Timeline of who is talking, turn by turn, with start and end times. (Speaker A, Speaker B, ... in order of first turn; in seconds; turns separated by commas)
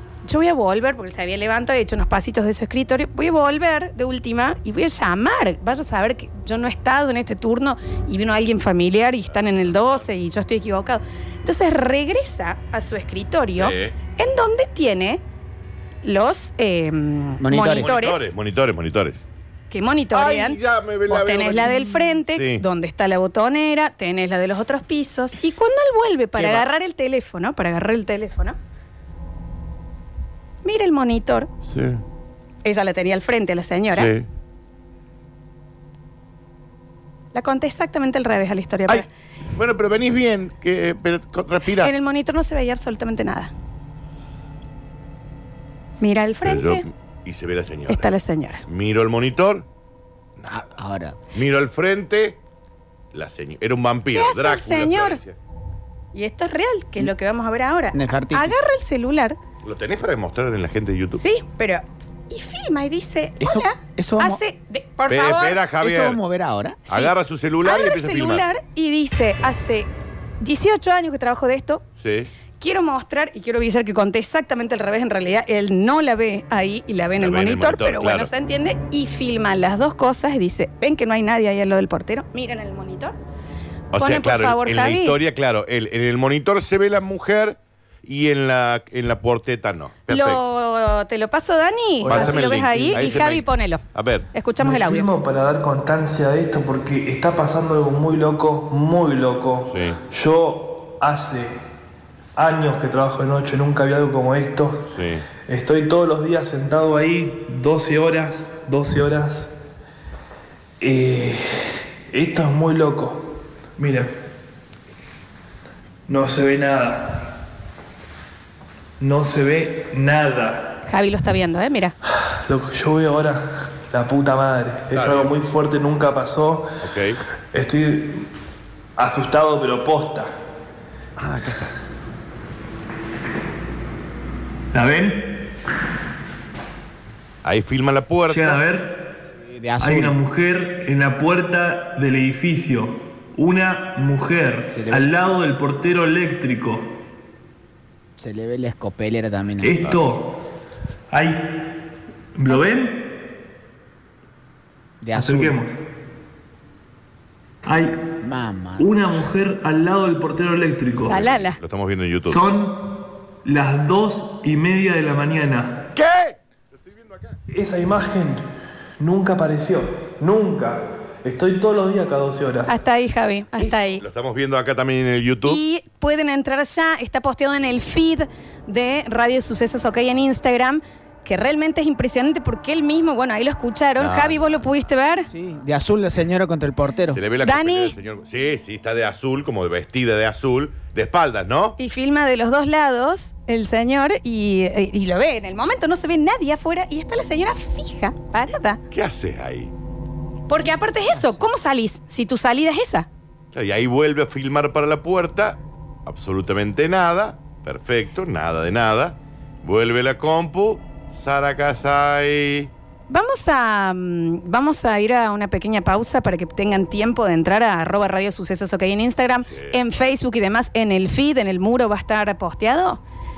Speaker A: 0.2-15.2, Speaker B: 9.3-10.1, Speaker B: 13.5-14.0, Speaker A: 16.0-18.3, Speaker C: 17.4-17.9, Speaker B: 17.7-19.2, Speaker A: 19.7-28.6, Speaker B: 20.1-22.6, Speaker B: 26.4-26.7, Speaker A: 30.6-31.5, Speaker B: 31.7-32.0, Speaker A: 32.6-34.1, Speaker B: 33.9-34.3, Speaker A: 37.3-39.1, Speaker B: 38.9-41.9, Speaker A: 41.8-43.5, Speaker A: 46.0-46.9, Speaker B: 46.4-48.1, Speaker A: 47.9-48.6, Speaker B: 48.6-49.7, Speaker B: 50.4-50.7, Speaker C: 50.5-51.2, Speaker B: 51.3-52.4, Speaker B: 53.1-55.4, Speaker A: 54.1-55.2, Speaker A: 56.1-59.4, Speaker C: 57.9-58.6, Speaker B: 59.6-61.2, Speaker A: 61.2-65.6, Speaker C: 63.4-64.4, Speaker B: 65.1-66.2, Speaker C: 65.8-66.8, Speaker B: 66.9-68.5, Speaker A: 66.9-69.9, Speaker A: 70.4-71.8, Speaker B: 72.0-72.3, Speaker A: 72.6-83.2, Speaker B: 77.2-78.3, Speaker B: 83.9-90.4, Speaker A: 84.0-85.2, Speaker A: 90.1-93.8, Speaker B: 92.0-94.3, Speaker D: 92.1-93.3, Speaker A: 94.3-95.1, Speaker D: 94.6-101.5, Speaker B: 99.7-100.0, Speaker D: 102.4-104.9, Speaker B: 104.9-105.3, Speaker D: 105.4-109.5, Speaker D: 110.8-111.4, Speaker D: 112.1-114.1, Speaker D: 116.1-117.3, Speaker D: 119.0-120.7, Speaker A: 120.8-122.0, Speaker D: 122.3-126.8, Speaker B: 124.9-125.3, Speaker B: 126.8-127.2, Speaker D: 127.5-128.2, Speaker D: 129.0-130.3, Speaker B: 131.2-131.7, Speaker D: 134.7-135.5, Speaker B: 137.4-138.6, Speaker D: 138.3-139.0, Speaker C: 139.3-140.2, Speaker D: 139.8-146.9, Speaker C: 144.6-145.1, Speaker C: 148.2-149.8, Speaker D: 149.6-150.4, Speaker D: 151.1-151.8, Speaker D: 152.3-153.1, Speaker C: 155.0-155.6, Speaker D: 155.2-155.8, Speaker D: 157.6-158.0, Speaker C: 158.2-158.9, Speaker D: 158.8-161.3, Speaker A: 161.1-161.6, Speaker B: 161.1-162.4, Speaker D: 162.3-165.8, Speaker B: 165.9-167.4, Speaker D: 167.5-168.4, Speaker D: 169.0-172.7, Speaker A: 172.7-174.0, Speaker B: 174.0-175.6, Speaker A: 175.4-185.3, Speaker B: 184.0-184.6, Speaker C: 185.3-187.2, Speaker B: 187.1-191.8, Speaker A: 187.4-187.9, Speaker A: 191.8-198.8, Speaker B: 198.9-199.7, Speaker A: 200.5-203.1, Speaker B: 203.5-212.7, Speaker A: 213.1-223.0, Speaker B: 219.5-219.9